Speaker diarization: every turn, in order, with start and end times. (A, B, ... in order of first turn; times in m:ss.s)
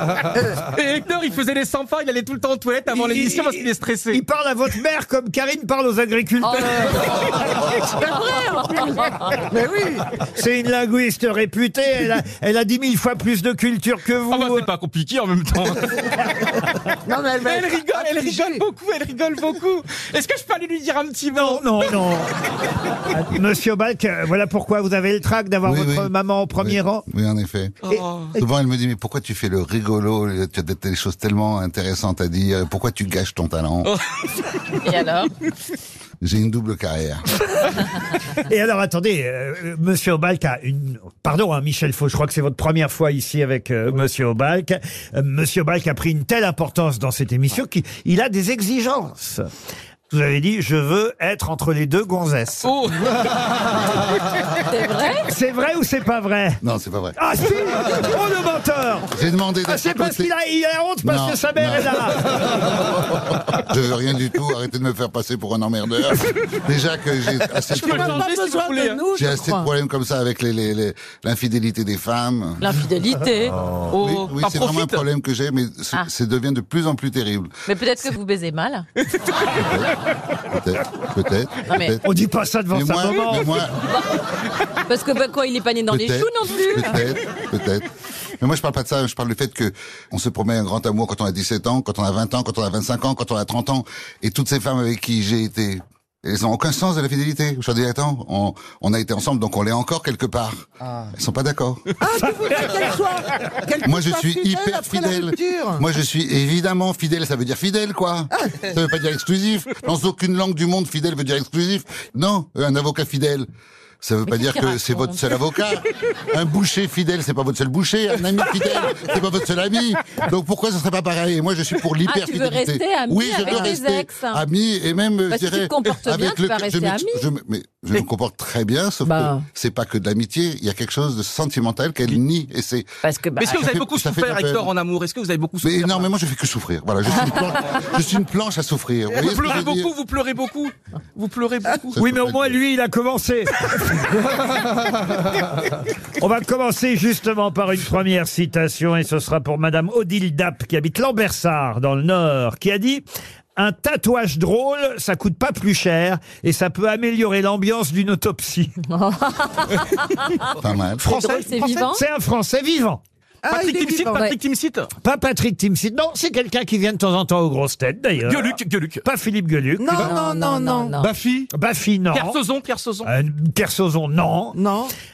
0:00.6-0:04.2 A
0:02.9-0:07.3 B
0:06.5-0:07.1 C
0:07.8-0:08.2 D
0:08.2-0:09.3 C
0:09.5-0:10.1 D
0:10.3-0:14.7 B
0:14.3-0:16.4 A
0:17.0-0:18.6 D
0:17.4-0:21.9 A
0:21.3-0:22.3 B
0:23.0-0:27.1 B
0:25.6-0:33.9 E
0:27.8-0:28.3 A
0:33.8-0:34.7 A
0:34.8-0:35.3 C
0:36.2-0:37.2 E
0:38.3-0:49.5 B
0:50.1-0:52.7 B
0:52.6-0:53.3 A
0:54.6-0:55.3 C
0:55.2-0:56.6 B
0:56.6-0:57.2 E
0:57.2-0:59.1 B
0:59.1-1:00.3 E
0:59.6-1:02.3 B
1:01.0-1:08.3 E
1:07.7-1:09.0 A
1:07.8-1:09.6 D
1:09.1-1:09.6 C
1:09.1-1:12.8 E
1:12.6-1:13.6 C
1:13.6-1:17.6 E
1:13.9-1:15.0 A
1:17.7-1:18.8 C
1:19.1-1:19.6 A
1:19.5-1:20.0 E
1:20.5-1:22.0 E
1:22.0-1:23.6 B
1:22.7-1:23.9 E
1:24.9-1:27.0 C
1:25.9-1:27.9 E
1:28.4-1:41.9 E
1:42.0-1:45.8 D
1:43.8-1:53.5 E
1:48.3-1:48.7 D
1:54.0-2:13.0 E
1:54.3-1:55.4 C
2:02.1-2:04.4 C
2:05.3-2:07.2 C
2:09.0-2:09.4 C
2:13.0-2:13.6 C
2:13.4-2:16.1 A
2:13.5-2:14.7 E
2:15.6-2:19.9 E
2:19.1-2:22.0 A
2:21.9-2:22.6 E
2:22.0-2:24.6 B
2:26.2-2:33.0 B
2:33.6-2:38.8 B
2:38.9-2:40.5 C
2:40.6-2:41.1 E
2:41.0-2:41.5 A
2:41.1-2:42.0 C
2:41.4-2:43.0 B
2:43.4-2:44.2 D
2:43.5-2:44.9 A
2:45.0-2:50.2 B
2:48.2-2:49.0 A
2:49.8-2:51.5 D
2:50.0-2:51.1 C
2:51.5-2:52.4 B
2:52.1-2:53.1 A
2:53.0-2:54.6 B
2:54.5-2:54.9 D